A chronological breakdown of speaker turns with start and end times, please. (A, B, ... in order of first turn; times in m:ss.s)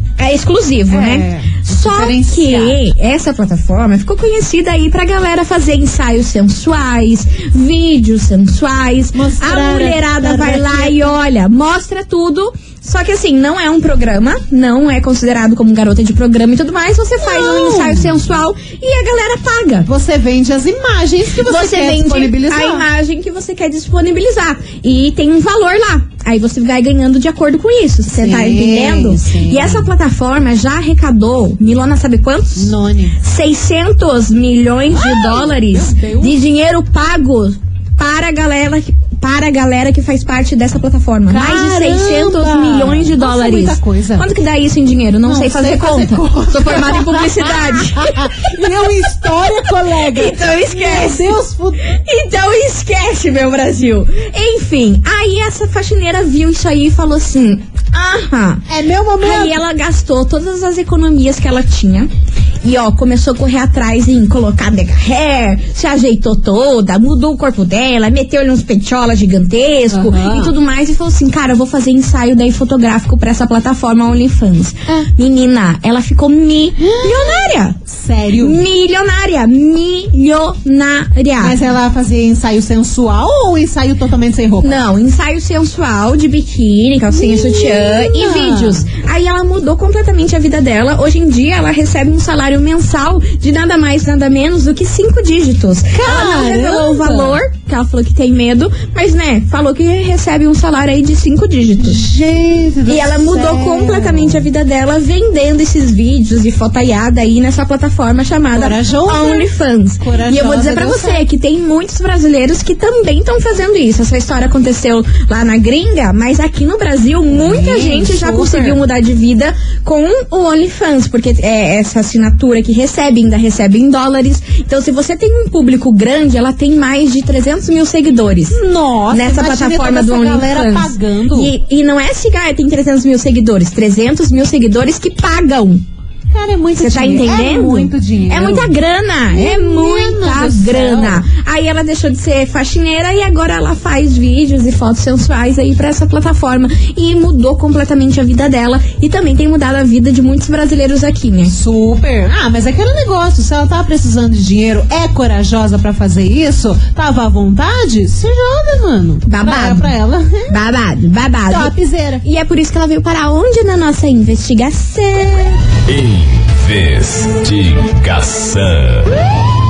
0:00.2-0:19.9 A
0:00.9-0:02.8 B
0:09.1-0:11.1 B
0:17.2-0:18.2 B
0:19.8-0:22.8 B
0:21.4-0:58.6 A
0:28.1-0:29.9 B
0:32.6-0:33.2 B
0:34.9-0:36.3 B
0:41.3-0:44.3 B
0:45.2-0:51.8 B
0:58.7-0:59.6 B
0:59.2-1:02.1 A
1:02.6-1:17.8 A
1:09.9-1:10.5 B
1:16.8-1:18.6 B
1:18.4-1:21.6 A
1:21.4-1:24.8 B
1:24.6-1:42.1 A
1:27.1-1:28.9 B
1:35.9-1:37.4 B
1:41.8-1:44.4 B
1:42.9-2:08.6 A
1:48.5-1:51.2 B
1:57.3-1:58.8 B
2:08.5-2:11.5 B
2:09.1-2:15.8 A
2:16.3-2:18.7 B
2:16.8-2:31.5 A
2:19.3-2:21.2 B
2:31.5-2:40.5 B
2:39.2-2:39.9 A
2:40.5-2:45.6 A
2:41.5-2:42.2 B
2:45.8-2:49.2 C